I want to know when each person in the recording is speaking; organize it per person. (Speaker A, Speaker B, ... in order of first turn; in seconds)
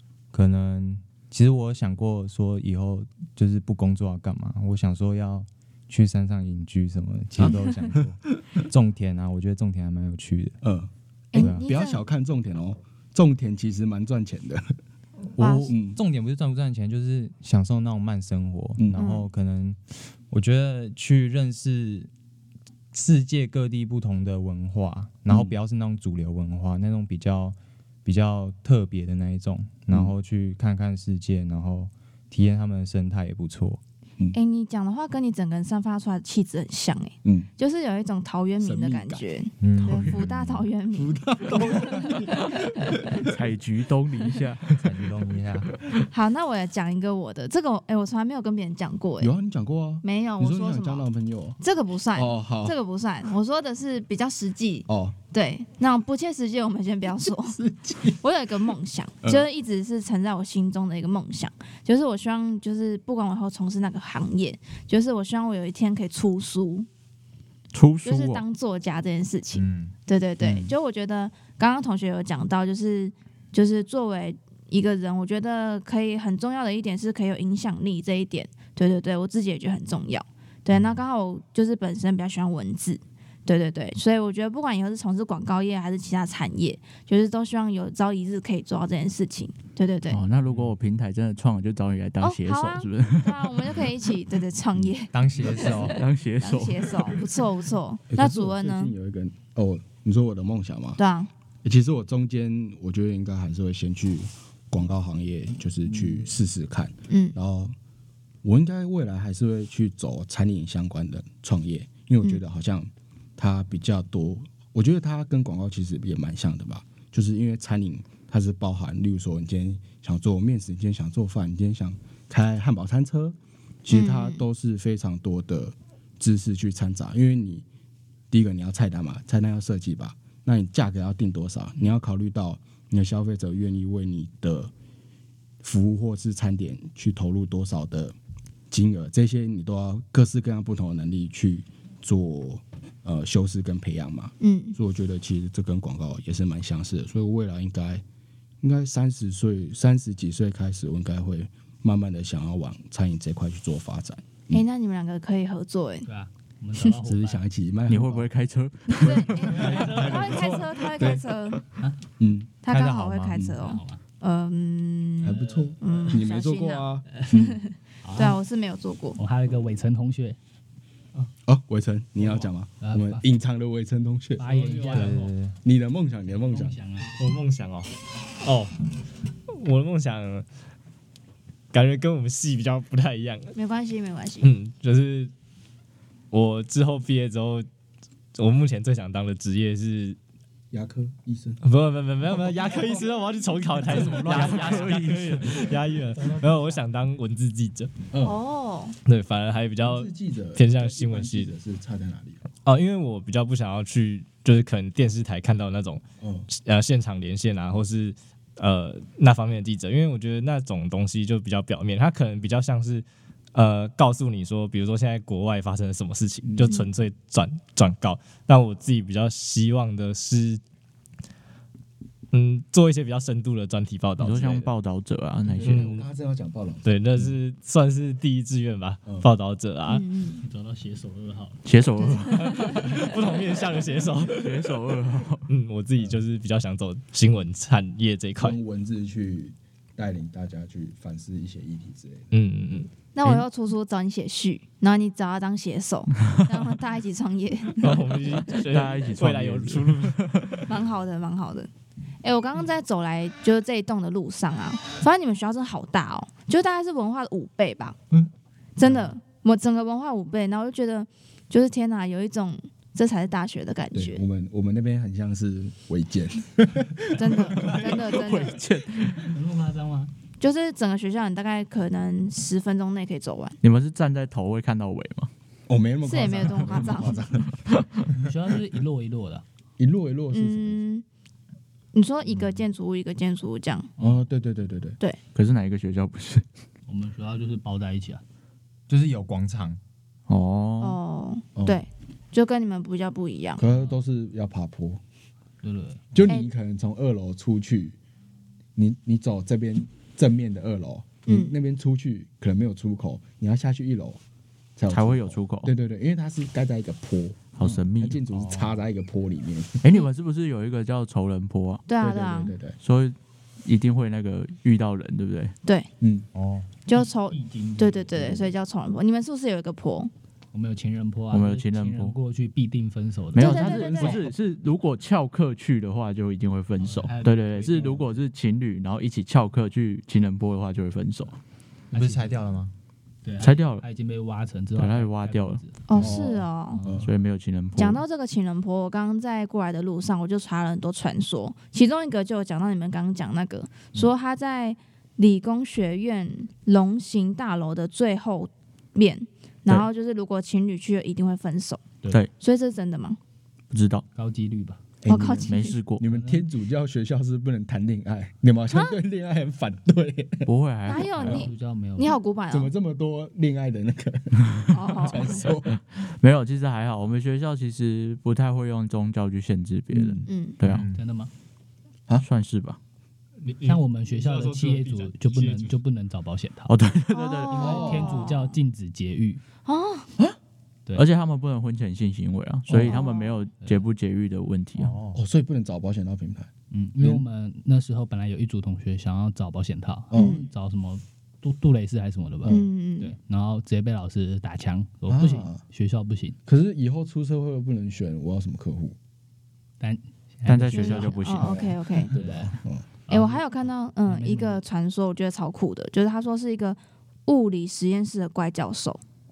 Speaker A: 0.3-10.6, 11.4-11.7, 15.4-22.1, 22.9-33.8, 39.6-40.7, 44.8-45.7, 69.5-69.9, 95.1-96.0, 162.7-163.4, 174.9-175.5, 288.9-289.8, 308.3-308.8, 316.3-316.7, 331.9-332.7, 370.6-371.0, 384.8-385.2
Speaker B: 7.4-8.0, 10.6-14.7, 15.7-16.0, 37.2-37.5, 38.6-39.2, 40.9-43.3, 49.2-51.6, 52.1-52.8, 54.9-55.2, 57.2-58.2, 98.1-101.0, 101.6-107.7, 108.4-127.6, 128.3-134.7, 135.6-138.1, 138.7-148.0, 148.6-154.6, 157.0-158.3, 159.5-161.3, 162.2-162.6, 163.3-163.7, 165.2-167.6, 171.4-174.4, 175.6-176.8, 190.7-191.6, 192.3-193.0, 194.1-194.8, 198.1-198.4, 199.8-202.4, 206.2-206.5, 216.4-216.8, 225.4-227.2, 238.4-242.3, 263.9-267.9, 275.7-278.1, 279.8-280.8, 284.0-285.0, 291.5-291.8, 293.6-295.0, 296.1-298.0, 298.8-304.2, 304.8-307.4, 308.0-309.8, 312.0-312.8, 316.0-316.3, 323.5-324.2, 335.9-337.1, 355.0-360.5, 362.5-365.8, 369.9-370.3, 377.6-378.3, 382.7-383.0, 385.1-386.5, 390.1-390.4, 392.4-392.7, 395.1-395.6, 396.4-398.9, 401.4-403.0
Speaker C: 7.5-7.8, 11.3-12.0, 15.4-15.7, 18.9-19.3, 34.3-43.0, 46.1-49.3, 50.0-51.1, 51.6-57.6, 58.2-66.9, 68.0-90.2, 92.2-98.9, 101.0-101.3, 107.1-107.4, 123.9-124.4, 144.4-144.8, 154.5-156.1, 158.9-161.6, 162.6-169.2, 183.5-184.6, 198.2-199.0, 229.9-230.4, 232.0-233.0, 243.1-249.1, 250.6-251.7, 252.2-258.0, 258.8-264.2, 267.1-268.6, 270.4-273.6, 276.0-277.2, 280.3-281.0, 281.9-283.9, 290.8-293.6, 301.2-301.5, 311.9-312.5, 315.6-315.9, 316.9-320.1, 323.3-324.2, 335.9-336.8, 337.8-351.8, 352.4-353.2, 355.1-355.8, 358.7-359.0, 360.9-362.7, 364.7-365.5, 370.2-370.6, 377.1-378.6, 379.6-380.1, 382.9-383.3, 390.1-390.4, 392.5-393.1, 400.7-402.1, 403.1-409.0
Speaker D: 43.2-44.7, 67.7-68.4, 90.1-93.9, 95.9-97.3, 157.9-159.8, 193.9-195.7, 224.2-225.9, 231.6-232.7, 234.3-235.5, 248.6-250.7, 267.6-269.3, 273.6-275.3, 277.6-278.0, 285.3-286.4, 290.3-291.0, 304.9-305.7, 307.6-308.2, 309.8-311.9, 312.8-315.5, 321.3-322.1, 323.3-331.4, 333.4-333.8, 334.8-335.6, 337.0-338.0, 353.7-354.0, 355.4-356.0, 360.4-361.4, 365.7-370.9, 372.2-372.8, 376.7-377.9, 380.9-385.0, 400.4-401.6
Speaker E: 156.0-157.4, 159.4-160.6, 163.6-164.0, 165.3-166.1, 167.1-167.4, 168.0-168.4, 169.2-170.4, 172.2-173.2, 174.4-175.3, 176.3-177.1, 196.2-196.4, 230.4-231.6, 232.6-233.1, 269.1-270.1, 278.2-279.4, 284.0-284.2, 286.9-288.2, 293.7-294.0, 295.6-296.1, 317.0-318.5, 320.5-323.7, 326.8-328.1, 331.9-332.4, 333.2-337.1, 354.1-354.8, 356.0-356.5, 361.1-362.2, 370.9-371.3, 373.6-376.7, 377.5-379.4, 386.7-396.4, 399.8-401.3, 402.1-403.4, 404.0-404.6
Speaker F: 174.4-175.3, 177.1-178.8, 179.5-180.4, 181.7-183.5, 184.4-185.3, 186.3-187.7, 188.3-190.2, 191.6-197.9, 199.1-201.5, 202.6-220.6, 222.3-224.7, 225.6-226.0, 226.8-230.0, 232.8-234.5, 235.5-238.6, 242.3-242.9, 247.8-250.3, 373.4-375.8